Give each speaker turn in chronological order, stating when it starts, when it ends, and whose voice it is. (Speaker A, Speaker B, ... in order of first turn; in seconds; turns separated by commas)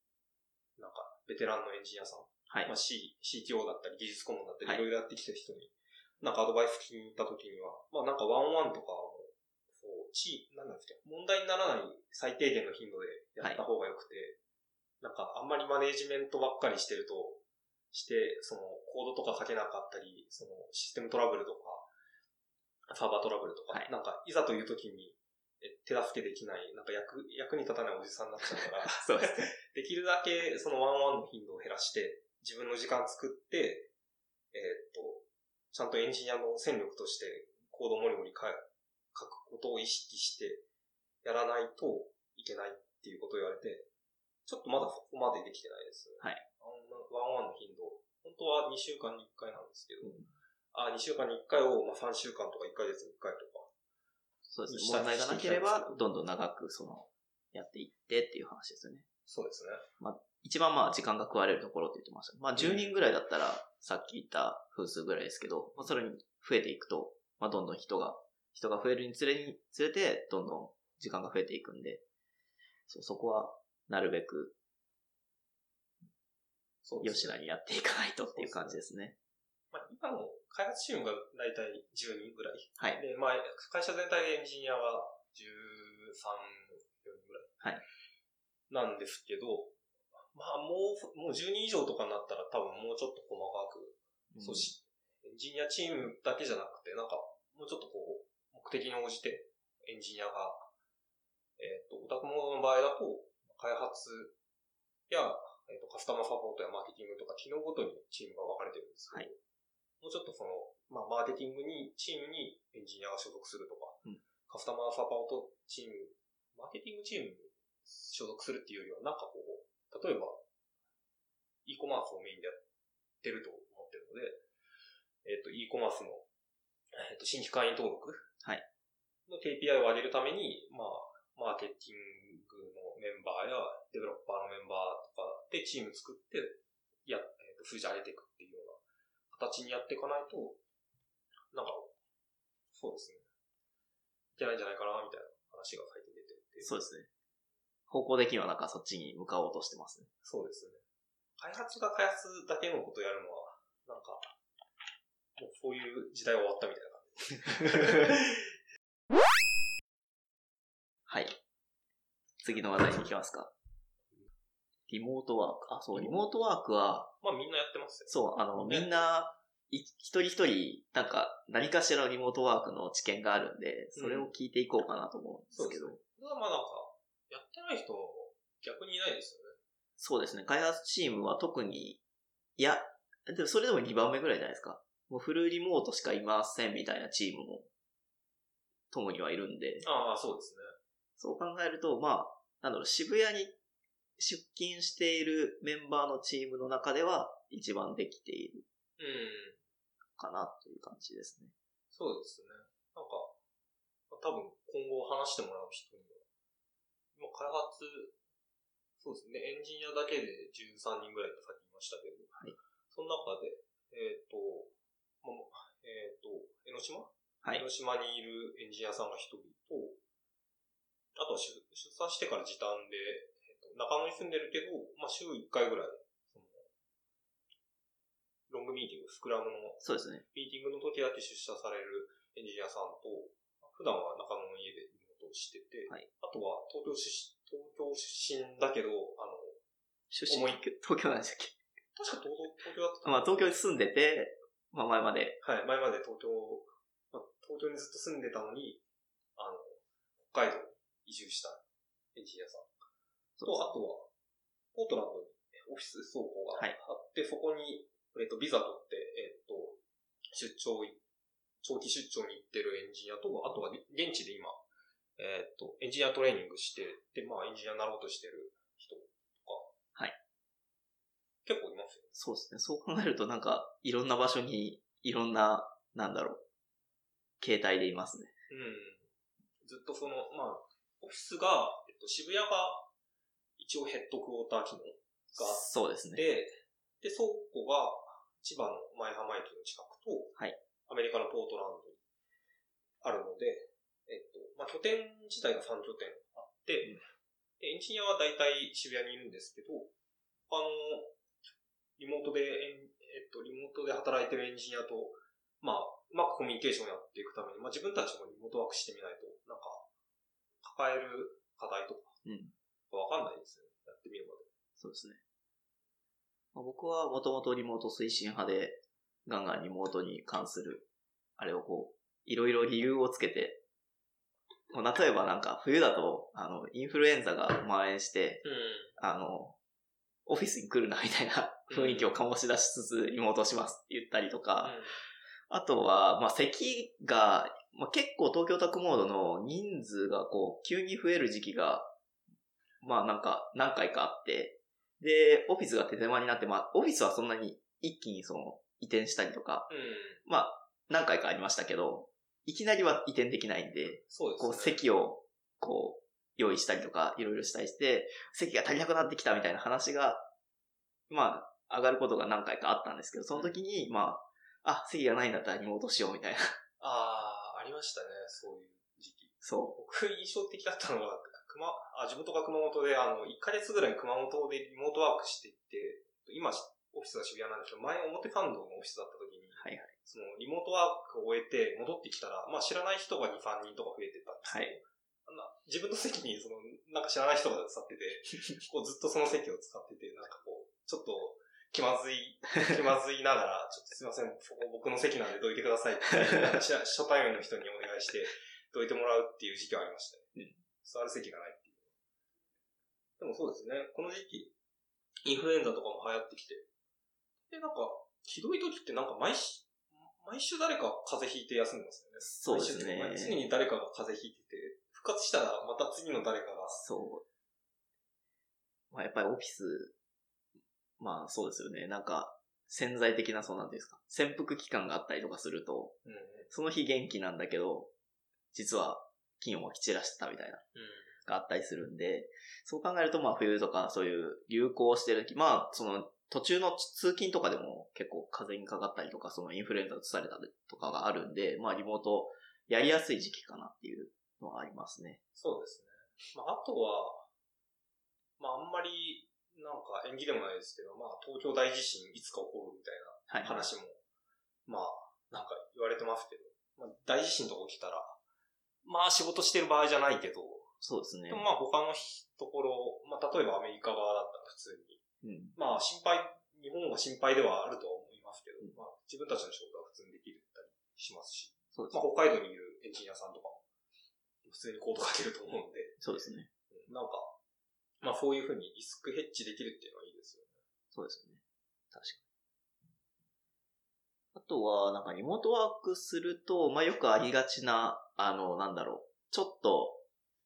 Speaker A: 0.8-14.4, Speaker A: 15.0-21.9, Speaker A: 22.9-33.9, Speaker B: 28.6-29.5, Speaker A: 34.5-40.6, Speaker A: 41.2-43.9, Speaker A: 44.5-50.2, Speaker B: 50.0-50.3, Speaker A: 50.7-53.7, Speaker B: 54.5-59.1, Speaker A: 54.7-56.0, Speaker A: 59.3-59.8, Speaker B: 60.0-72.0, Speaker A: 62.6-63.0, Speaker B: 72.9-74.6, Speaker A: 76.8-77.4, Speaker B: 77.0-79.2, Speaker A: 78.3-78.8, Speaker A: 79.7-87.5, Speaker A: 88.7-89.8, Speaker A: 90.3-100.7, Speaker B: 94.3-94.8, Speaker A: 101.6-104.4, Speaker A: 105.1-109.4, Speaker A: 110.0-120.4, Speaker A: 121.7-122.6, Speaker A: 123.2-124.4, Speaker A: 125.2-126.3, Speaker A: 127.0-128.3, Speaker A: 129.3-140.6, Speaker A: 141.5-141.9, Speaker A: 142.7-143.2, Speaker A: 144.4-146.7, Speaker B: 146.6-147.1, Speaker B: 147.9-150.1, Speaker A: 150.2-150.8, Speaker A: 151.4-154.3, Speaker A: 155.4-158.5, Speaker B: 161.1-161.4, Speaker B: 162.4-163.5, Speaker B: 164.9-167.1, Speaker A: 165.9-166.2, Speaker A: 167.2-169.1, Speaker B: 168.1-176.0, Speaker A: 173.9-174.3, Speaker A: 175.5-179.6, Speaker B: 180.0-182.0, Speaker B: 182.6-187.7, Speaker B: 188.9-189.9, Speaker A: 189.8-190.7, Speaker B: 191.2-193.6, Speaker B: 194.2-198.6, Speaker A: 199.0-199.6, Speaker B: 200.2-201.5, Speaker A: 201.9-203.4, Speaker A: 204.1-206.3, Speaker A: 207.2-208.2, Speaker A: 209.0-212.3, Speaker A: 212.9-220.0, Speaker A: 221.2-226.7, Speaker A: 228.5-239.6, Speaker B: 229.8-230.2, Speaker B: 240.1-241.6, Speaker A: 240.3-240.6, Speaker A: 242.0-243.6, Speaker B: 243.0-245.4, Speaker A: 245.4-248.8, Speaker A: 249.4-251.6, Speaker A: 252.1-252.7, Speaker B: 253.4-253.7, Speaker A: 253.4-254.1, Speaker A: 254.7-259.8, Speaker A: 260.3-261.0, Speaker A: 261.6-264.6, Speaker A: 265.2-269.7, Speaker A: 271.4-272.2, Speaker B: 272.2-276.4, Speaker B: 277.4-278.3, Speaker A: 278.5-279.1, Speaker A: 279.6-282.9, Speaker A: 283.6-290.4, Speaker B: 285.3-286.2, Speaker A: 290.9-292.0, Speaker A: 293.0-297.0, Speaker A: 297.6-299.9, Speaker A: 300.5-301.1, Speaker A: 302.0-309.9, Speaker A: 310.6-312.2, Speaker B: 312.2-312.6, Speaker A: 312.9-314.5, Speaker B: 314.8-315.2, Speaker B: 316.5-323.6, Speaker B: 324.7-328.4, Speaker A: 328.4-328.9, Speaker B: 329.0-329.6, Speaker B: 330.3-334.8, Speaker A: 331.7-332.2, Speaker A: 334.6-335.0, Speaker B: 335.5-341.9, Speaker B: 342.8-349.7, Speaker A: 349.7-350.2, Speaker B: 350.2-360.3, Speaker A: 354.1-354.8, Speaker B: 361.1-366.6, Speaker A: 366.8-400.3, Speaker B: 369.4-369.8, Speaker B: 379.6-379.9, Speaker B: 384.4-384.8, Speaker B: 400.4-400.6, Speaker A: 400.8-401.9, Speaker A: 403.2-404.6, Speaker A: 405.2-406.7, Speaker A: 407.5-416.8, Speaker B: 412.2-413.4, Speaker B: 416.7-417.2, Speaker B: 418.9-419.9, Speaker B: 421.0-426.0, Speaker A: 426.1-426.5, Speaker B: 426.5-427.9, Speaker B: 428.5-430.6, Speaker A: 430.8-431.1, Speaker B: 431.2-445.2, Speaker A: 445.4-447.3, Speaker A: 448.4-454.0, Speaker B: 453.3-453.7, Speaker A: 454.7-458.2, Speaker A: 458.8-460.7, Speaker B: 460.8-461.5, Speaker A: 461.3-465.0, Speaker B: 465.2-465.6, Speaker A: 465.6-473.6, Speaker B: 471.7-472.1, Speaker A: 474.4-476.0, Speaker B: 476.0-476.5, Speaker A: 476.7-477.4, Speaker A: 478.0-480.6, Speaker B: 480.9-482.2, Speaker B: 484.3-490.0